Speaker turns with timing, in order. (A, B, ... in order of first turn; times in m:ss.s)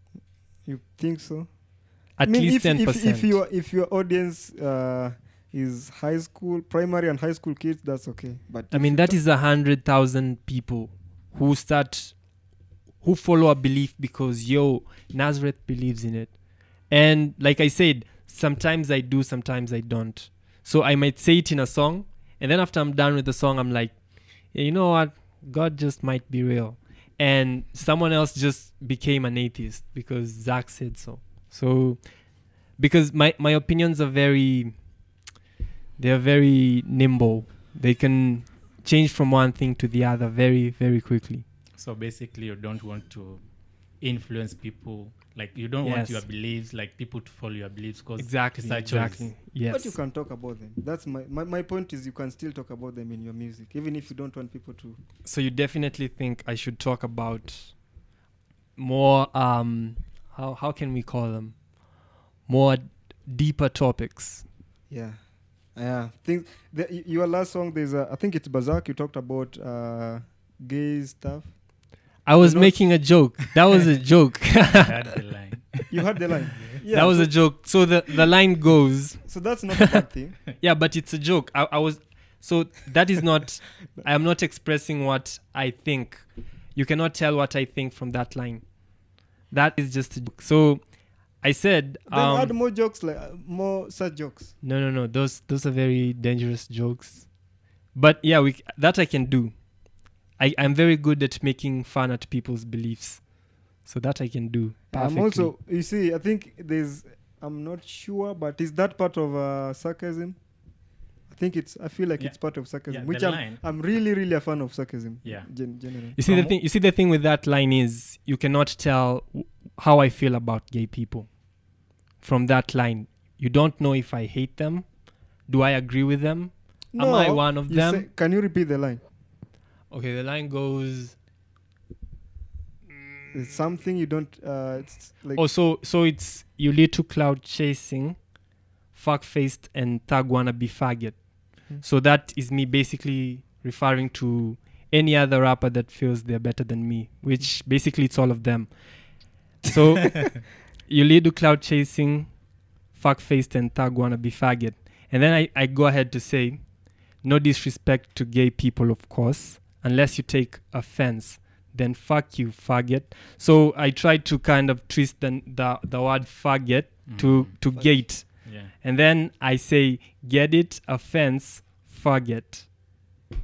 0:00.6-0:09.2 A
0:02.2-0:03.4 B
0:08.7-0:12.4 B
0:13.0-0:34.7 B
0:36.0-0:41.4 B
0:41.8-0:43.4 C
0:44.0-0:49.3 C
0:45.8-0:46.2 B
0:48.2-0:50.0 B
0:49.7-0:55.0 A
0:55.2-0:57.8 B
0:58.8-1:04.4 B
1:04.9-1:05.2 A
1:05.7-1:13.1 A
1:12.2-1:15.0 B
1:14.8-1:16.0 C
1:15.9-1:17.9 A
1:16.9-1:19.6 B
1:19.2-1:20.4 A
1:20.6-1:32.5 B
1:32.1-1:34.5 A
1:34.6-1:45.5 B
1:44.9-1:50.4 A
1:51.3-1:56.3 A
1:52.2-1:53.6 C
1:55.2-1:55.5 C
1:56.2-2:01.4 B
1:56.2-1:56.5 C
2:02.2-2:08.1 B
2:06.9-2:09.0 A
2:09.9-2:11.1 B
2:13.3-2:15.4 A
2:15.3-2:18.4 B
2:18.9-2:53.0 B
2:47.1-2:47.6 C
2:47.7-2:48.0 A
2:48.4-2:48.7 C